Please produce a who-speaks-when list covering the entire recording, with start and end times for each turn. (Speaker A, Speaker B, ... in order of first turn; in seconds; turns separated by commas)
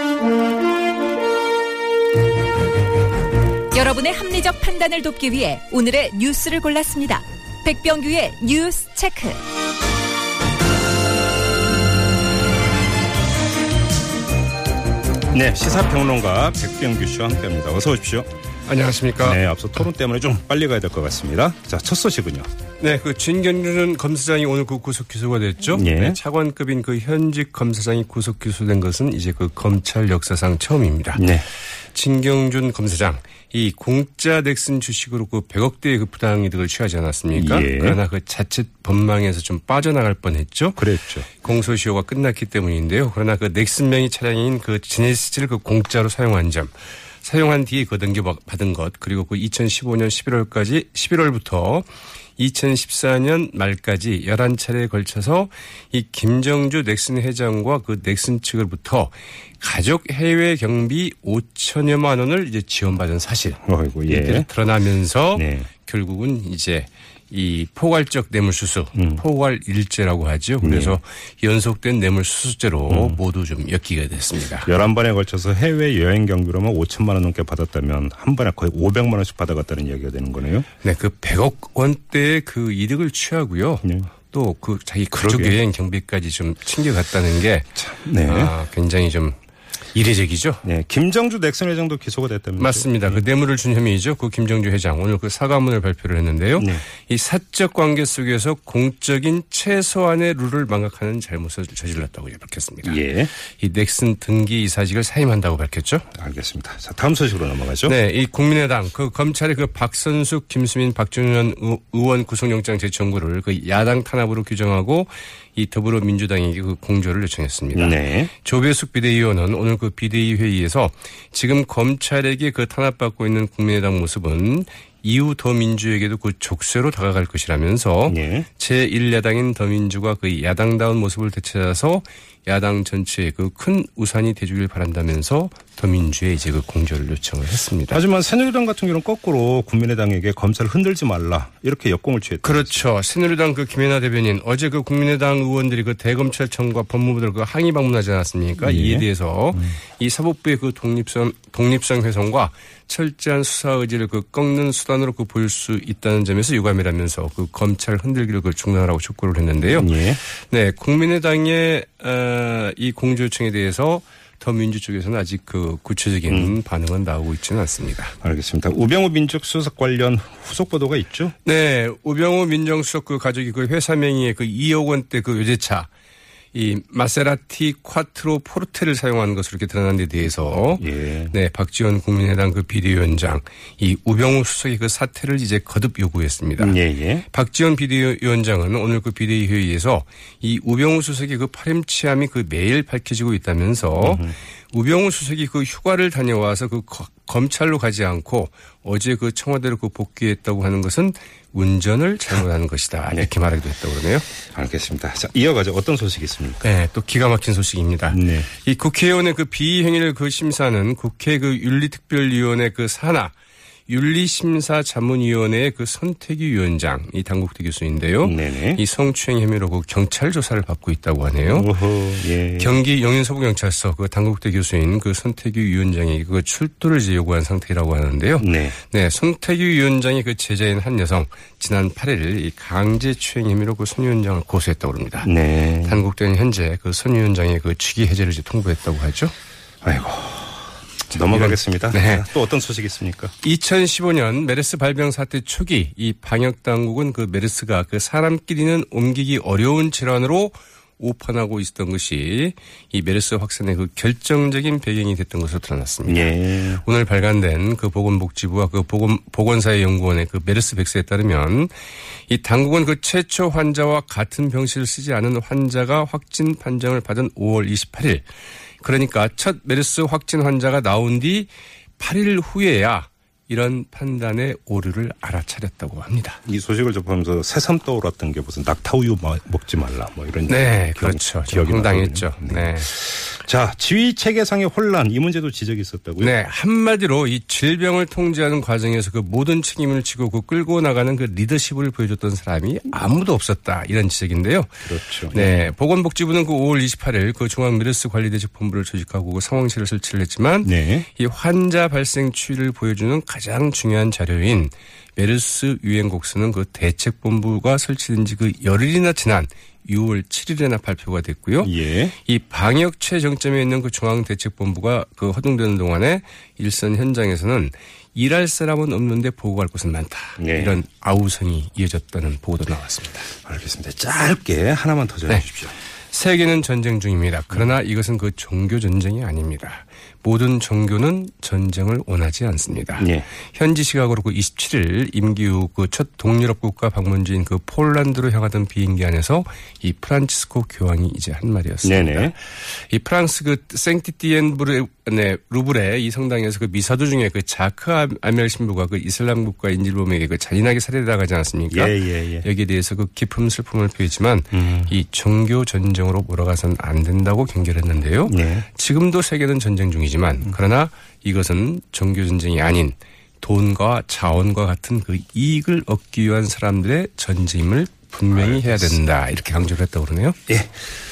Speaker A: 3.7-9.4, Speaker B: 15.3-18.3, Speaker C: 18.6-19.4, Speaker B: 19.2-22.5, Speaker C: 22.8-31.2, Speaker B: 25.7-26.2, Speaker B: 31.1-31.4, Speaker C: 31.9-74.7, Speaker B: 37.3-38.0, Speaker B: 40.8-41.3, Speaker B: 63.6-64.5, Speaker B: 65.3-65.7, Speaker B: 69.0-69.2, Speaker B: 70.6-71.0, Speaker B: 72.9-73.2, Speaker B: 74.6-80.7, Speaker C: 80.8-89.4, Speaker B: 85.1-85.6, Speaker B: 87.8-88.6, Speaker C: 89.9-90.6, Speaker B: 90.6-93.2, Speaker C: 92.6-106.1, Speaker B: 96.6-96.8, Speaker B: 102.8-103.3, Speaker B: 106.1-108.0, Speaker C: 107.8-138.0, Speaker B: 117.7-118.3, Speaker B: 128.1-128.5, Speaker B: 137.9-142.9, Speaker C: 142.4-168.1, Speaker B: 148.6-149.1, Speaker B: 159.7-160.2, Speaker B: 166.3-166.6, Speaker B: 168.2-171.3, Speaker C: 171.4-175.9, Speaker C: 176.5-186.8, Speaker B: 180.8-181.3, Speaker B: 186.6-187.2, Speaker C: 187.3-204.3, Speaker B: 194.0-194.3, Speaker B: 204.5-206.7, Speaker C: 206.6-213.3, Speaker B: 208.1-208.5, Speaker C: 213.9-221.7, Speaker B: 218.2-218.8, Speaker B: 221.4-222.8, Speaker C: 222.6-239.3, Speaker B: 228.4-228.8, Speaker B: 235.2-236.0, Speaker B: 239.8-243.3, Speaker C: 241.1-242.3, Speaker C: 243.4-261.7, Speaker B: 256.1-256.8, Speaker C: 262.3-268.2, Speaker C: 268.8-276.4, Speaker B: 276.4-286.4, Speaker C: 280.5-282.9, Speaker C: 286.2-323.3, Speaker B: 294.8-295.7, Speaker B: 300.6-301.1, Speaker B: 311.6-312.1, Speaker B: 320.4-320.8, Speaker B: 323.4-325.7, Speaker C: 326.1-370.4, Speaker B: 333.0-333.3, Speaker B: 341.8-342.3, Speaker B: 351.7-352.5, Speaker B: 354.5-354.9, Speaker B: 358.3-358.6, Speaker B: 368.3-369.0, Speaker B: 370.5-370.9